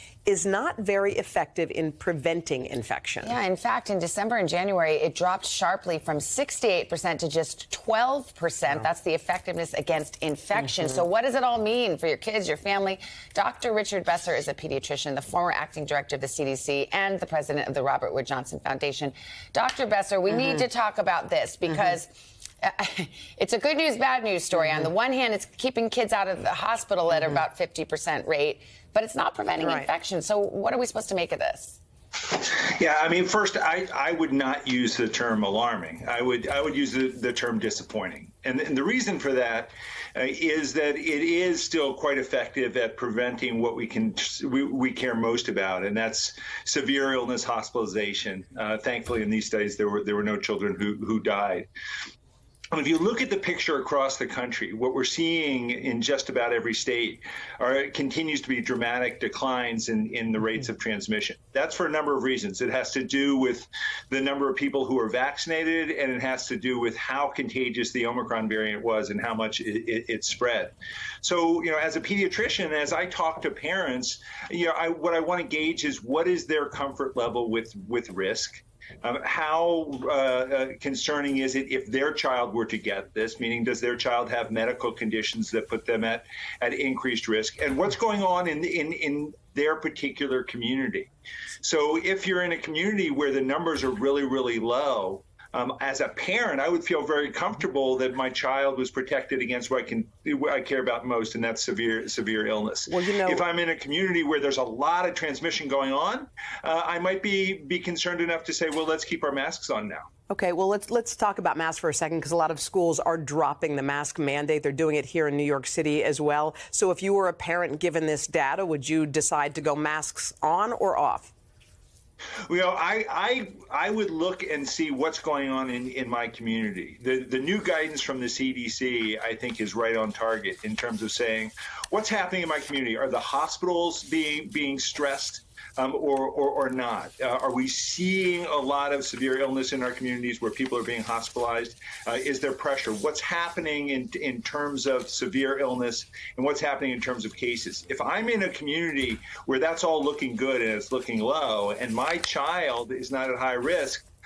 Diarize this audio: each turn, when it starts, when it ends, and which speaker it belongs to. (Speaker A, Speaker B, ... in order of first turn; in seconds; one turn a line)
Speaker A: 0.2-3.4
Speaker B: 3.2-22.1
Speaker A: 20.3-20.6
Speaker B: 22.6-31.8
Speaker A: 29.6-29.9
Speaker C: 32.3-51.7
Speaker C: 52.7-91.1
Speaker C: 91.6-110.1
Speaker A: 102.9-103.4
Speaker A: 110.3-121.3
Speaker C: 122.5-154.0